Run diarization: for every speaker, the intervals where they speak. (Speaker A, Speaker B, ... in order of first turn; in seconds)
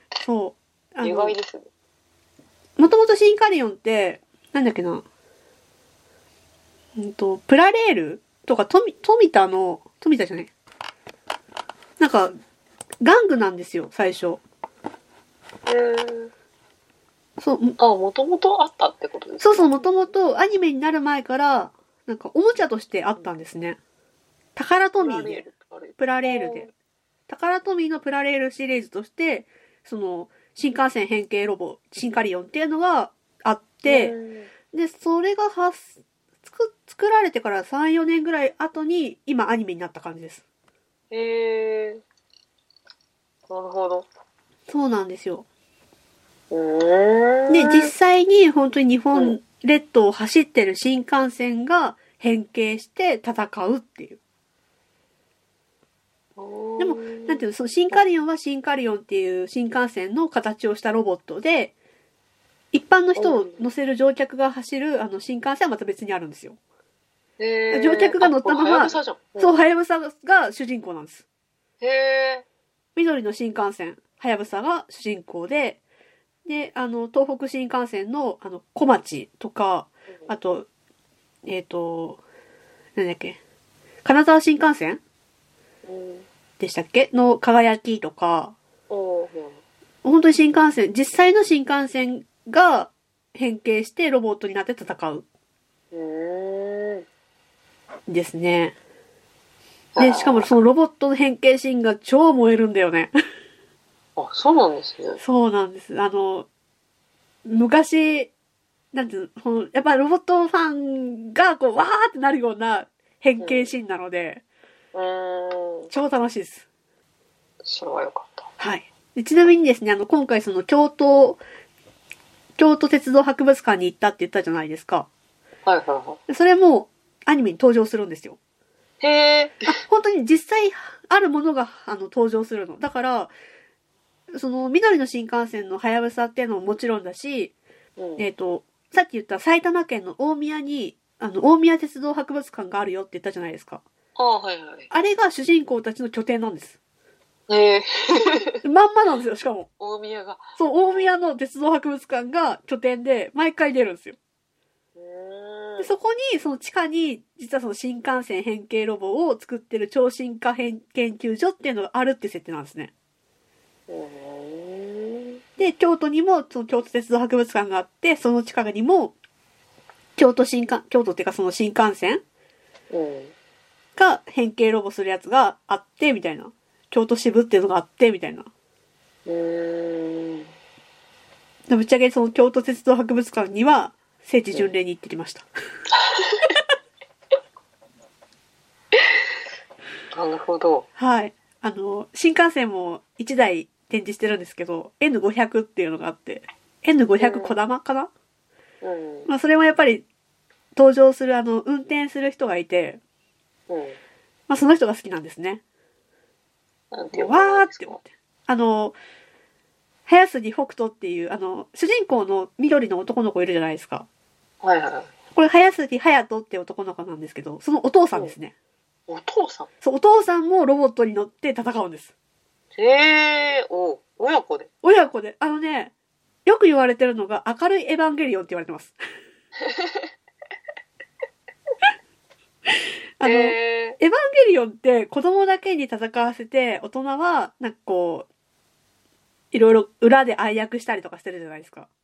Speaker A: 0.2-1.4, 2.8-5.0, 7.0-10.5, 12.0-12.3, 13.0-14.4, 17.4-17.8, 19.4-23.8, 24.6-26.7, 27.3-34.1, 34.7-40.4, 44.7-45.5, 47.5-54.2, 56.8-61.7, 62.7-66.6, 67.7-71.2, 73.0-75.8, 76.5-80.7, 81.4-82.2, 83.0-83.4, 84.0-85.0, 86.6-88.5, 90.0-95.2, 98.1-98.8, 100.0-103.1, 105.2-106.5, 107.5-108.3, 108.9-114.4, 115.9-116.6, 118.6-121.4, 122.6-125.1, 126.3-128.4, 129.7-133.3, 134.3-137.5, 138.2-143.8, 144.9-146.8, 148.6-149.7, 150.6-154.2, 155.8-162.9, 165.6-169.1, 170.2-172.2, 173.9-178.5, 181.7-185.4, 191.0-198.1, 199.2-200.0, 200.7-203.0, 204.5-205.6, 207.1-208.9, 210.1-214.1, 215.3-218.5, 219.8-222.1, 224.8-225.9, 226.4-229.0, 233.2-238.3, 239.5-241.9
Speaker B: 1.0-1.7, 15.7-16.3, 17.8-19.7, 25.0-26.7, 33.8-34.5, 41.1-42.0, 43.5-44.1, 46.5-47.9, 56.4-58.0, 63.1-63.6, 67.4-69.6, 71.8-72.4, 85.8-86.3, 88.9-89.6, 95.9-97.0, 100.0-100.5, 104.2-105.2, 113.4-113.7, 114.9-115.9, 117.6-118.5, 125.6-126.2, 129.0-129.7, 138.0-138.2, 144.2-144.9, 147.5-148.6, 149.8-151.1, 154.9-155.9, 163.9-165.4, 172.9-173.3, 179.2-180.5, 186.0-186.5, 190.1-190.9, 197.2-197.6, 198.8-199.3, 203.7-204.0, 206.9-208.0, 214.6-215.1, 219.1-219.7, 222.8-224.7, 229.6-230.1, 233.2-234.0